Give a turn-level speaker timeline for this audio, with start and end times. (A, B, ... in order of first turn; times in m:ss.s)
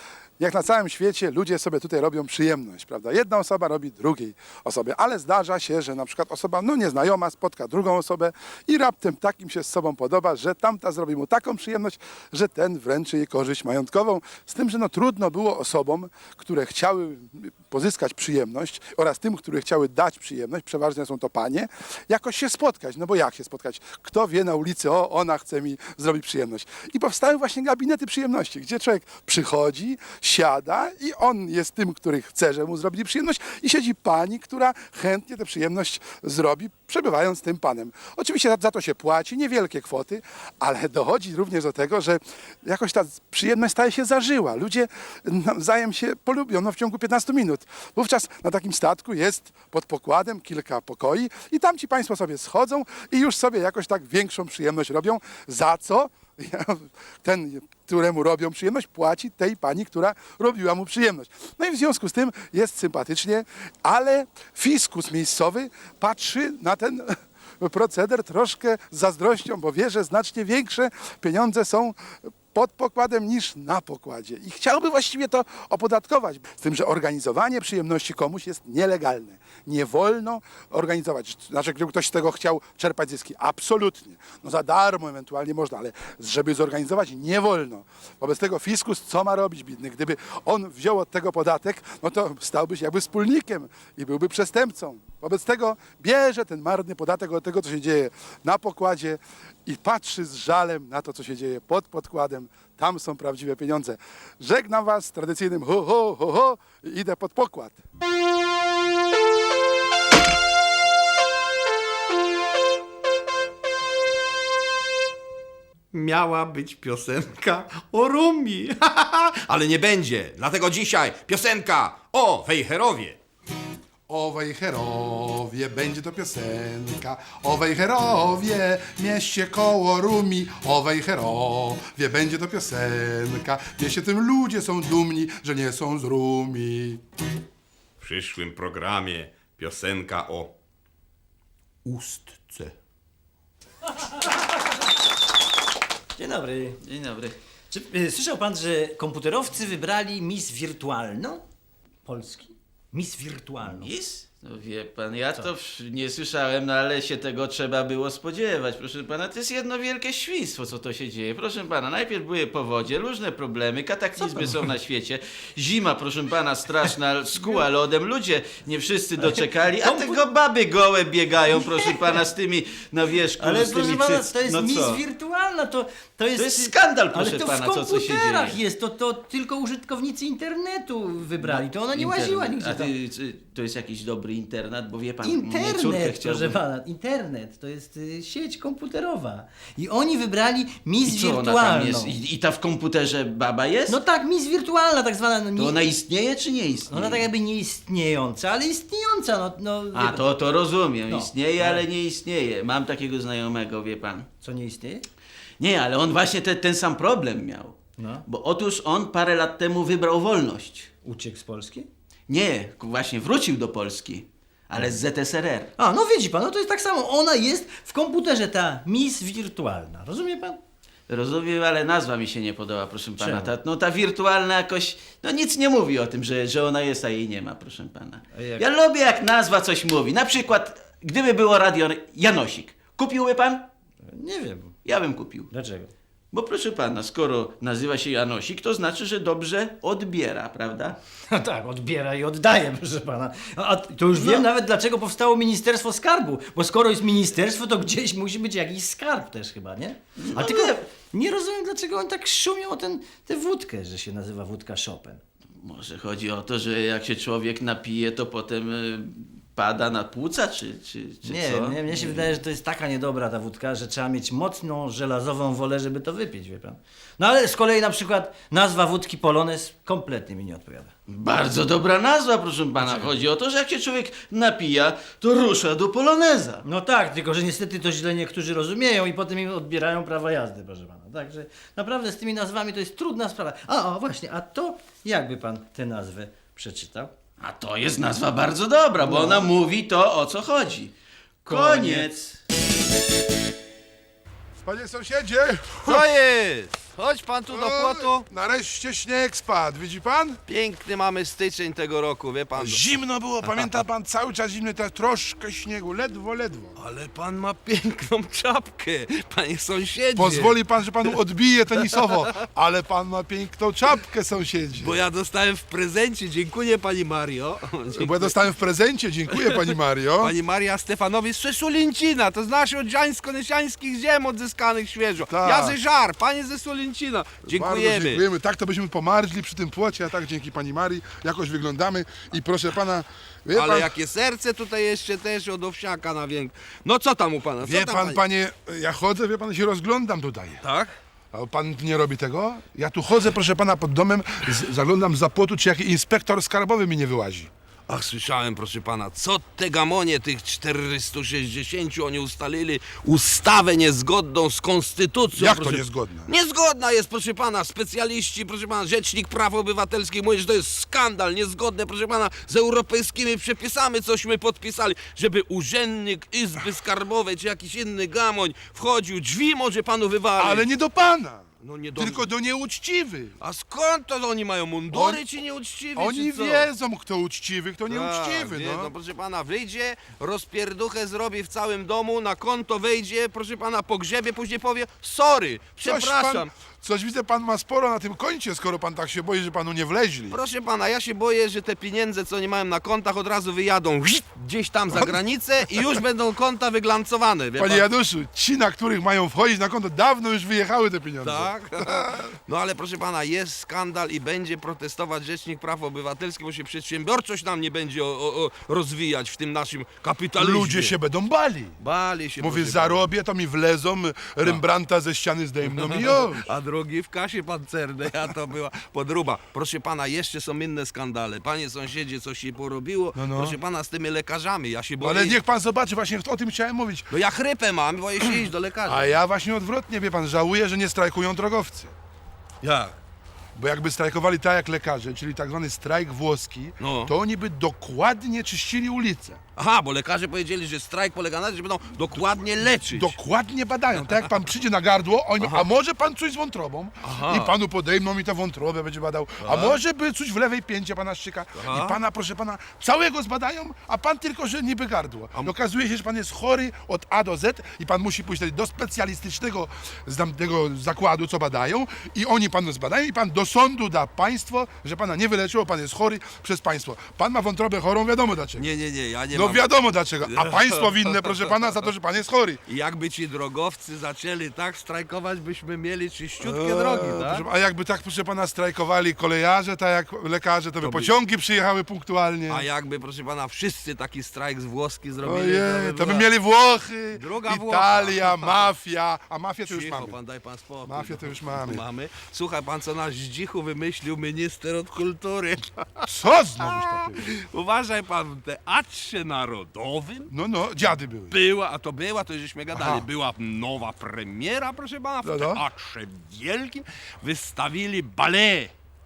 0:00.4-1:47.8 A
1:55.9-2:03.2 B
2:04.1-2:17.0 A
2:18.0-2:20.6 B
2:21.8-2:22.7 B
2:24.0-2:24.3 C
2:26.2-2:26.8 C
2:26.8-2:27.4 D
2:27.7-2:31.4 C
2:32.1-2:33.9 C
2:33.6-2:55.0 D
2:44.2-2:44.7 C
2:49.2-2:50.2 C
2:51.5-2:52.2 C
2:53.4-3:02.9 C
2:56.4-2:58.6 D
3:01.4-3:06.6 D
3:05.2-3:12.2 C
3:11.0-3:14.0 D
3:13.9-3:15.8 C
3:15.6-3:17.3 D
3:16.9-3:20.3 C
3:19.9-3:24.3 D
3:21.1-3:21.8 C
3:24.4-3:25.1 C
3:25.6-3:30.9 D
3:28.0-3:28.2 C
3:31.0-3:31.9 C
3:32.3-3:35.7 D
3:35.8-3:40.6 C
3:41.1-3:53.7 D
3:43.2-3:43.5 C
3:48.3-3:48.6 C
3:54.0-3:54.8 C
3:54.8-3:55.5 D
3:55.5-3:55.9 C
3:56.3-4:01.0 D
4:01.3-4:15.2 C
4:04.2-4:04.5 D
4:10.2-4:10.8 D
4:15.6-4:22.4 D
4:21.2-4:30.9 C
4:31.1-4:36.6 D
4:32.8-4:33.1 C
4:36.6-4:47.1 C
4:47.4-4:50.9 D
4:49.0-4:49.5 C
4:51.4-4:52.3 D
4:51.5-4:52.3 C
4:54.6-4:56.1 A
4:55.8-4:58.3 B
4:57.5-5:00.4 A
5:00.5-5:02.9 B
5:02.6-5:06.8 A
5:03.4-5:03.8 B
5:06.8-5:11.2 B
5:10.2-5:15.0 A
5:11.8-5:12.2 B
5:14.8-5:18.4 B
5:17.9-5:20.3 A
5:19.3-5:28.2 B
5:25.3-5:25.8 A
5:27.5-5:34.0 A
5:33.5-5:38.2 B
5:37.6-5:40.6 A
5:40.6-5:41.0 B
5:41.3-5:47.5 A
5:47.9-6:10.7 B
5:55.3-5:56.3 A
6:10.4-6:13.4 A
6:11.6-6:12.3 B
6:13.4-6:16.7 B
6:14.9-6:15.2 A
6:16.0-6:18.9 A
6:17.9-6:26.5 B
6:25.8-6:30.4 A
6:30.3-6:37.8 B
6:37.6-6:42.2 A
6:41.2-6:50.9 B
6:50.4-6:51.8 A
6:51.8-6:53.0 B
6:52.4-6:56.5 A
6:55.6-7:05.4 B
7:03.2-7:03.6 A
7:05.0-7:07.1 A
7:07.1-7:09.2 B
7:08.9-7:11.9 A
7:12.6-7:13.0 B
7:13.6-7:19.4 A
7:16.8-7:17.1 B
7:19.6-7:23.2 B
7:22.8-7:48.7 A
7:25.4-7:25.7 B
7:27.0-7:27.5 B
7:29.4-7:29.8 B
7:31.6-7:32.0 B
7:48.6-7:49.6 B
7:49.3-7:52.6 A
7:50.2-7:51.9 B
7:52.7-7:57.4 B
7:56.4-8:02.7 A
8:00.8-8:01.1 B
8:02.5-8:06.3 B
8:05.2-8:10.2 A
8:07.1-8:08.7 B
8:09.6-8:20.3 B
8:10.9-8:11.8 A
8:16.1-8:17.2 A
8:20.3-8:21.4 A
8:21.3-8:28.7 B
8:22.7-8:23.1 A
8:25.2-8:25.6 A